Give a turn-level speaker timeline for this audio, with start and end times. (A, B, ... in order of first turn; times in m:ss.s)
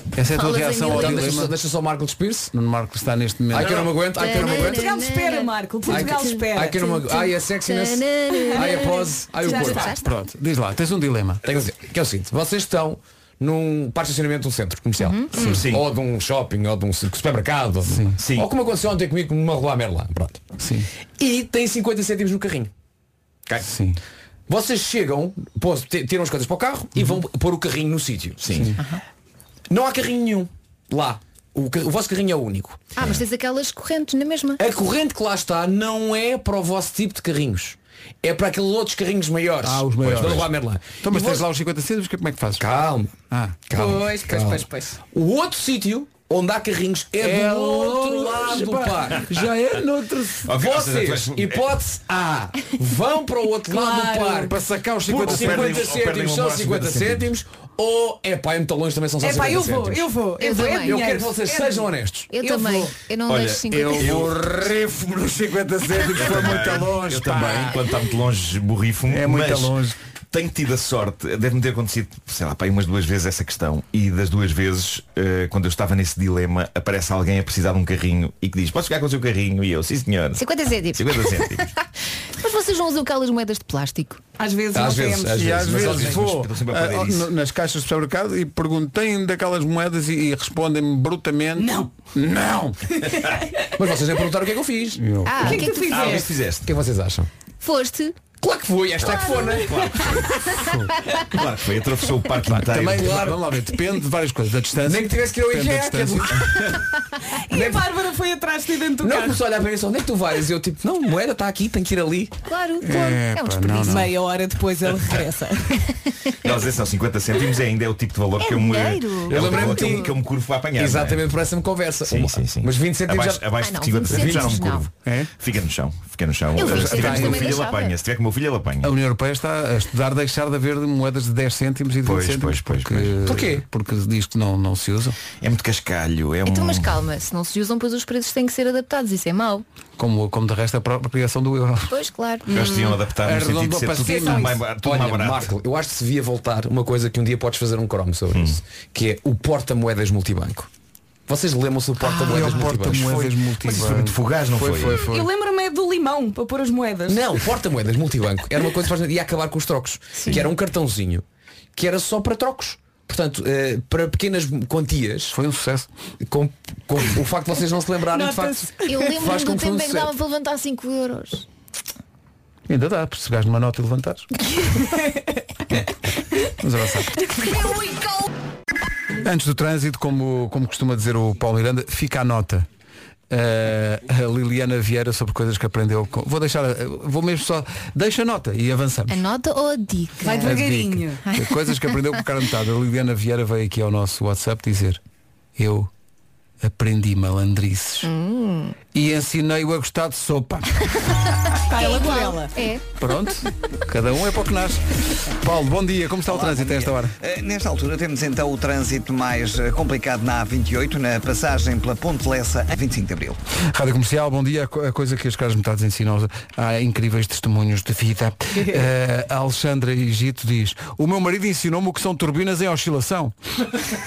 0:00.2-0:01.5 A
0:00.3-0:01.5 B
0:00.8-0:02.5 C
0:02.5-0:03.9 A
0:03.5-0:05.0 C
0:04.1-0:10.1 B
0:04.3-0:06.9 D
0:05.9-0:10.0 C
0:08.4-0:09.9 D
0:10.0-0:11.4 A
0:11.4-0:20.4 C
0:15.0-0:15.4 B
0:15.3-0:15.6 D
0:15.4-0:15.9 E
0:17.8-0:18.2 A
0:18.2-0:18.5 E
0:20.6-0:20.9 A
0:21.2-0:22.7 C
0:23.6-0:24.0 A
0:24.5-0:28.4 C
0:28.4-0:28.7 E
0:29.7-0:32.9 C
0:33.0-0:34.6 B
0:34.6-0:41.4 C
0:39.6-0:40.5 A
0:40.1-0:40.4 E
0:41.0-0:42.6 A
0:42.6-0:43.1 C
0:43.3-0:43.6 A
0:43.7-0:49.3 C
0:43.7-0:45.0 D
0:47.2-0:50.5 A
0:50.5-0:51.6 E
0:50.5-1:02.3 C
0:53.7-0:54.5 D
0:54.5-0:55.9 A
0:55.2-0:57.3 E
0:59.2-1:02.9 D
1:00.4-1:01.2 B
1:02.3-1:04.3 B
1:03.2-1:04.3 E
1:03.7-1:07.8 A
1:06.2-1:09.8 E
1:06.2-1:07.7 C
1:09.1-1:09.9 A
1:10.3-1:21.7 E
1:20.4-1:21.9 B
1:22.4-1:24.2 B
1:24.4-1:25.6 D
1:24.7-1:26.4 C
1:25.4-1:32.8 A
1:25.6-1:27.3 E
1:31.6-1:31.9 D
1:33.1-1:33.5 D
1:33.8-1:35.0 C
1:35.0-1:35.5 A
1:35.2-1:36.1 B
1:35.4-1:36.3 D
1:35.9-1:36.7 E
1:36.1-1:37.3 C
1:37.6-1:38.2 B
1:38.4-1:40.3 C
1:39.0-1:40.2 D
1:39.7-1:40.2 E
1:40.6-1:40.9 A
1:41.3-1:43.2 E
1:42.5-1:46.3 A
1:42.8-1:43.4 C
1:44.8-1:46.7 C
1:47.3-1:49.4 D
1:47.5-1:47.8 C
1:49.0-1:52.4 C
1:52.5-1:54.1 B
1:52.8-1:54.1 A
1:53.9-1:55.8 D
1:56.3-1:56.6 B
1:56.4-2:01.3 E
1:58.4-2:00.1 B
1:59.2-2:00.1 C
2:00.7-2:03.5 C
2:02.0-2:08.9 E
2:03.5-2:04.9 B
2:04.0-2:04.6 C
2:05.0-2:05.3 A
2:06.5-2:08.0 B
2:06.6-2:07.6 A
2:06.8-2:07.5 C
2:08.8-2:15.2 A
2:12.0-2:13.3 E
2:13.2-2:13.6 C
2:15.4-2:17.0 E
2:16.4-2:19.6 B
2:20.0-2:21.9 A
2:21.9-2:22.7 B
2:22.5-2:23.0 D
2:22.5-2:25.5 E
2:23.2-2:24.5 A
2:24.0-2:24.6 D
2:24.6-2:30.7 C
2:28.3-2:28.6 E
2:31.3-2:33.3 C
2:32.1-2:35.3 A
2:32.9-2:35.0 E
2:35.0-2:37.3 D
2:37.1-2:41.2 C
2:40.2-2:40.5 B
2:41.7-2:45.4 C
2:45.3-2:45.9 A
2:46.2-2:50.1 C
2:48.1-2:49.1 D
2:48.8-2:51.4 B
2:52.7-2:54.3 A
2:54.8-2:55.2 D
2:56.6-2:57.1 A
2:57.4-2:57.7 D
2:59.2-3:02.7 A
3:03.3-3:09.2 A
3:09.1-3:10.6 B
3:10.2-3:11.2 D
3:10.4-3:15.0 A
3:11.2-3:11.7 B
3:15.6-3:15.9 A
3:16.6-3:18.1 A
3:18.0-3:18.8 B
3:18.9-3:20.7 A
3:21.7-3:22.5 D
3:21.7-3:22.8 B
3:23.0-3:27.1 A
3:26.3-3:33.4 F
3:33.7-3:43.3 A
3:38.6-3:38.9 D